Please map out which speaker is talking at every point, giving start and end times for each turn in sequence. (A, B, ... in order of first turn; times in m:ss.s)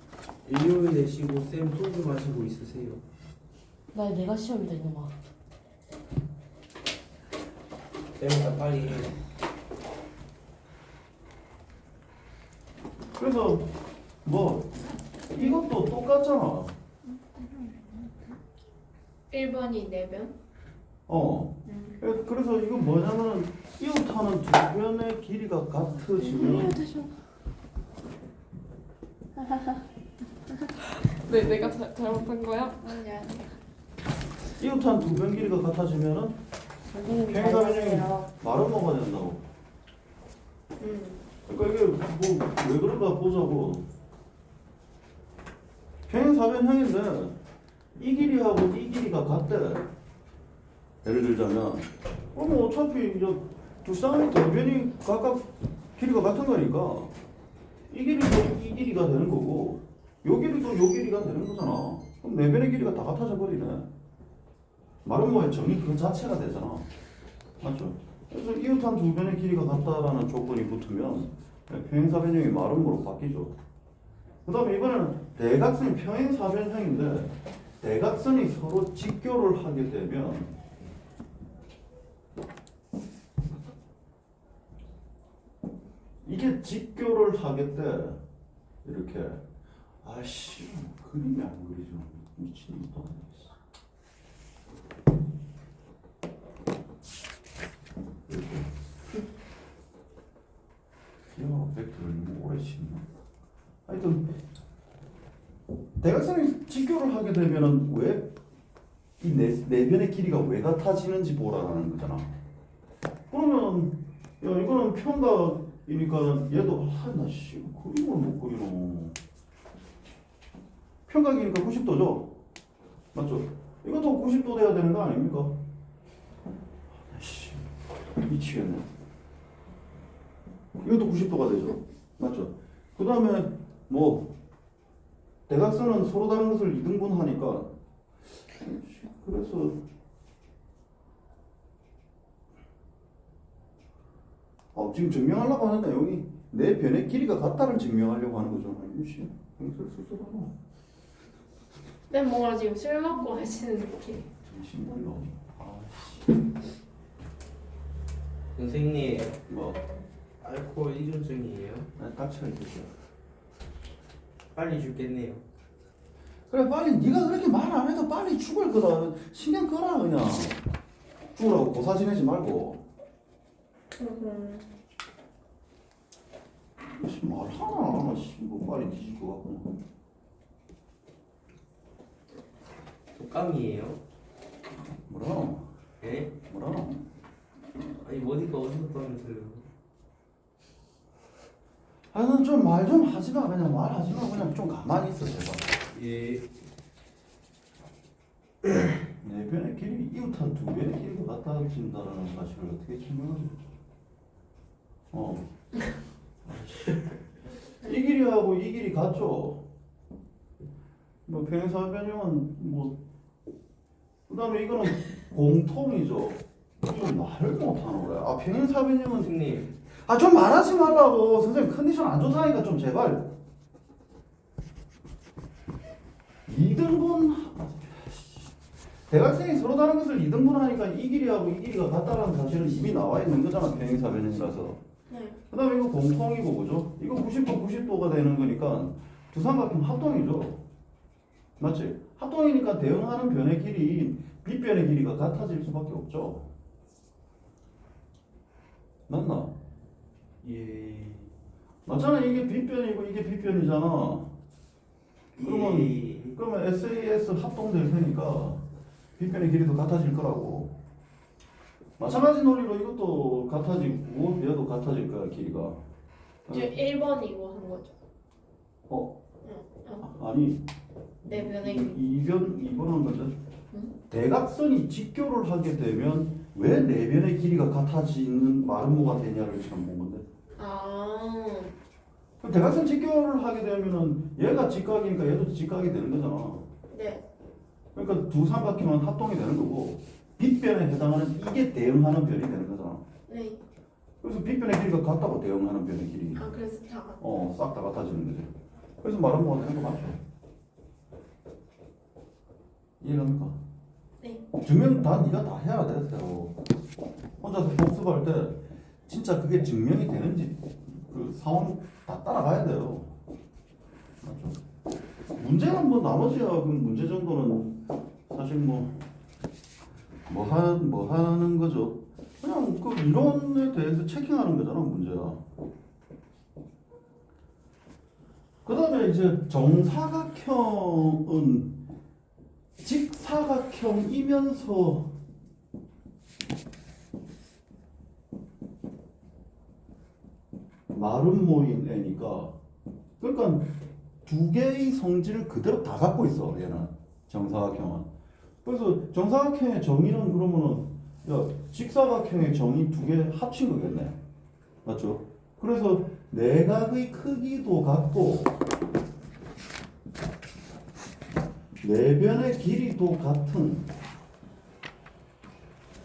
0:00.4-0:03.0 A
0:03.9-0:05.1 B
0:08.2-0:09.2 A
0:13.2-0:13.7 C
0:14.2-0:14.8 C
0:15.3-0:16.7 C
0:19.3-0:20.3 D
0:21.1-0:26.8 C
0:21.7-0:22.0 D
0:26.3-0:27.1 E
0:31.2-0:33.2 E
0:32.8-0:33.4 D
0:34.6-0:36.4 C
0:36.9-0:38.3 B
0:37.2-0:39.4 C
0:40.8-0:41.2 D
0:41.4-0:43.8 C
0:46.1-0:47.4 C
0:48.0-0:49.9 C
0:51.0-0:57.1 C
0:57.9-1:03.9 C
1:05.0-1:06.9 C
1:07.6-1:13.5 C
1:14.4-1:20.5 C
1:26.2-1:28.2 C
1:28.8-1:29.4 C
1:30.0-1:33.5 C
1:38.3-1:38.7 C
1:41.3-1:43.0 C
1:43.8-1:44.3 C
1:46.0-1:48.3 C
1:49.2-1:52.3 C
1:53.3-1:59.2 C
2:01.1-2:02.4 C
2:03.1-2:05.6 C
2:07.0-2:08.9 C
2:10.8-2:14.3 C
2:15.5-2:17.7 C
2:18.5-2:19.8 C
2:24.7-2:30.5 C
2:32.1-2:34.3 D
2:34.4-2:36.4 C
2:38.5-2:39.4 A
2:39.5-2:39.8 C
2:40.4-2:41.9 A
2:42.0-2:42.9 C
2:44.5-2:45.4 A
2:46.5-2:50.6 C
2:51.3-2:52.8 C
2:54.0-2:54.7 D
2:56.8-2:59.7 C
3:03.2-3:04.0 A
3:05.1-3:05.7 C
3:06.0-3:06.3 A
3:06.4-3:07.0 C
3:07.9-3:09.7 A
3:12.1-3:15.7 C
3:15.9-3:16.5 A
3:19.2-3:23.6 C
3:25.1-3:25.5 C
3:26.4-3:27.1 C
3:27.8-3:29.6 C
3:31.2-3:33.0 C
3:34.3-3:39.3 C
3:39.1-3:39.7 A
3:39.9-3:43.3 C
3:46.4-3:48.5 C
3:49.1-3:54.8 C
3:55.1-3:55.4 D
3:55.5-4:00.6 C
4:01.6-4:06.5 C
4:09.1-4:09.5 C
4:10.4-4:11.3 A
4:11.8-4:14.3 C
4:15.4-4:16.4 A
4:15.4-4:18.6 C
4:19.2-4:20.7 C
4:22.0-4:25.8 C
4:26.5-4:26.8 C
4:26.5-4:27.9 D
4:28.9-4:29.2 C
4:29.4-4:30.1 D
4:30.0-4:30.6 C
4:31.2-4:33.3 C
4:31.3-4:32.0 D
4:34.1-4:40.2 C
4:40.6-4:41.7 D
4:42.4-4:46.6 C
4:46.9-4:47.2 D
4:47.9-4:53.0 C
4:53.3-4:53.6 D
4:54.2-4:56.4 C
4:56.3-4:57.2 D
4:57.2-4:58.5 C
4:59.0-5:00.2 C
5:03.0-5:03.6 C
5:04.2-5:04.4 D
5:04.6-5:06.6 C
5:07.4-5:13.1 C
5:14.2-5:14.6 C
5:15.3-5:19.0 C
5:20.3-5:25.4 C
5:28.6-5:31.8 C
5:32.8-5:35.1 C
5:40.9-5:42.6 C
5:43.2-5:48.1 C
5:48.6-5:54.2 C
5:54.8-5:58.5 C
6:01.8-6:03.9 C